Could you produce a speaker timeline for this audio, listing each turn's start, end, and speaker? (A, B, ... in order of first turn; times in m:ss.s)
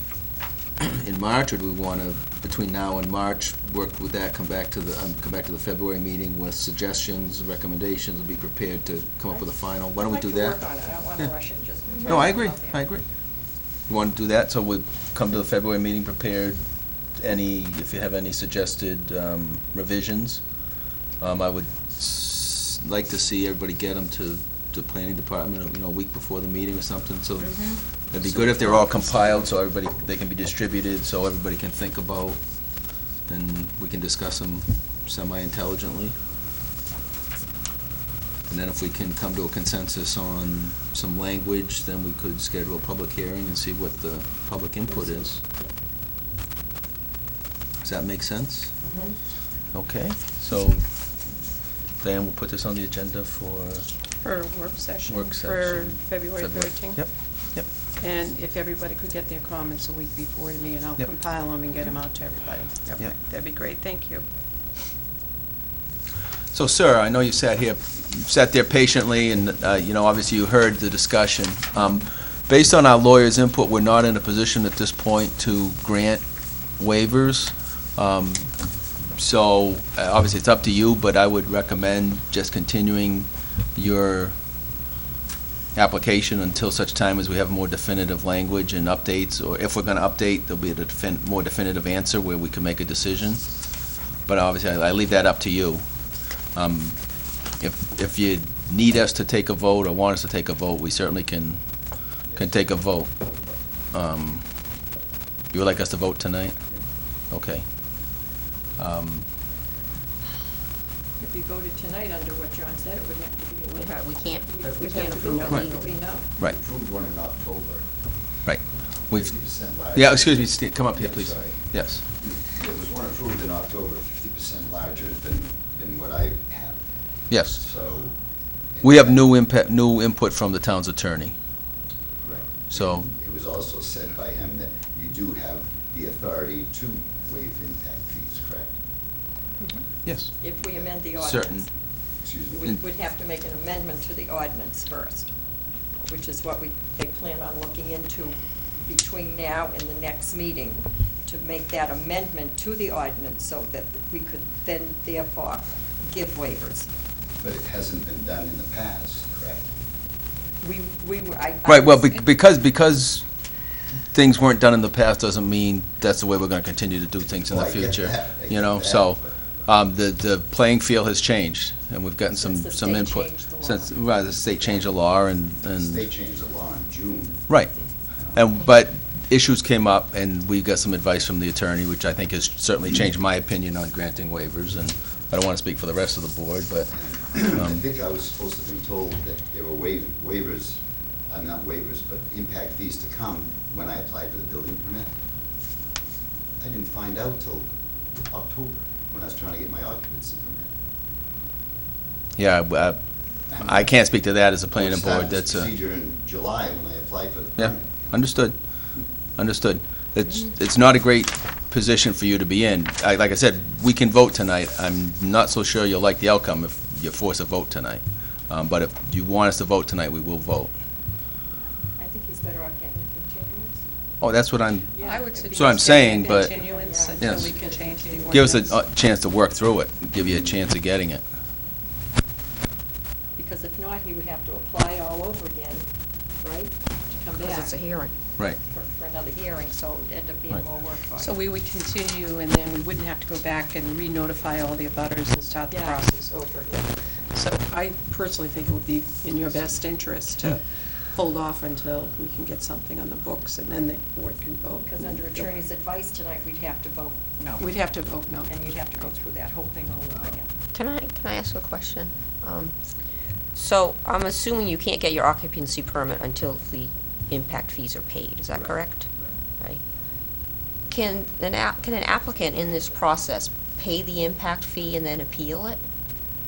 0:00.8-0:10.6 A
0:10.0-0:12.8 B
0:12.0-0:13.0 A
0:13.9-0:16.6 A
0:17.2-0:20.4 A
0:21.2-0:32.4 A
0:27.4-0:27.8 C
0:28.5-0:29.0 C
0:33.3-0:36.2 A
0:38.5-0:45.4 A
0:47.8-0:48.8 A
0:49.7-0:50.9 A
0:52.0-0:53.9 A
0:54.2-0:57.1 D
0:55.1-0:57.7 A
0:58.0-1:04.2 D
1:06.5-1:16.2 A
1:16.8-1:18.5 A
1:19.2-1:24.4 A
1:25.8-1:33.4 A
1:34.3-1:35.8 A
1:36.6-1:37.0 A
1:37.6-1:41.6 A
1:42.4-1:43.2 A
1:43.9-1:44.5 A
1:45.5-1:46.6 A
1:47.3-1:47.7 A
1:48.8-1:49.3 A
1:51.2-1:56.3 B
1:53.7-1:56.0 C
1:56.4-1:57.9 E
1:58.5-1:59.3 A
1:59.1-2:01.6 E
1:59.9-2:02.0 A
2:02.2-2:06.8 E
2:07.3-2:07.6 A
2:07.5-2:08.2 E
2:08.8-2:09.2 E
2:08.8-2:11.4 A
2:12.2-2:18.8 E
2:12.7-2:13.1 A
2:20.0-2:20.4 A
2:20.4-2:21.7 B
2:21.2-2:21.7 A
2:22.2-2:22.7 E
2:22.5-2:25.3 B
2:26.1-2:36.9 B
2:37.4-2:39.7 E
2:40.6-2:42.3 B
2:41.7-2:43.3 A
2:44.1-2:56.1 A
2:47.5-2:49.3 E
2:52.4-2:54.5 B
2:55.8-2:57.5 E
2:58.2-2:58.4 E
2:58.3-3:06.9 A
3:06.9-3:15.1 E
3:07.5-3:07.8 A
3:16.6-3:17.7 E
3:18.2-3:20.7 E
3:22.4-3:23.0 A
3:23.5-3:23.9 E
3:23.6-3:25.7 A
3:24.8-3:28.1 E
3:27.6-3:28.6 A
3:29.4-3:40.7 A
3:42.0-3:43.8 B
3:44.2-3:44.9 A
3:44.9-3:48.6 B
3:45.0-3:48.8 D
3:45.5-3:46.6 A
3:47.2-3:47.5 A
3:48.3-3:51.2 A
3:53.4-3:55.9 B
3:56.4-3:57.8 B
3:57.4-3:58.1 C
3:58.6-4:01.4 B
4:01.2-4:06.3 D
4:05.7-4:07.0 B
4:07.3-4:15.6 D
4:14.8-4:17.8 B
4:17.6-4:18.6 D
4:18.5-4:20.5 B
4:20.7-4:22.8 C
4:23.5-4:29.1 C
4:30.9-4:35.8 C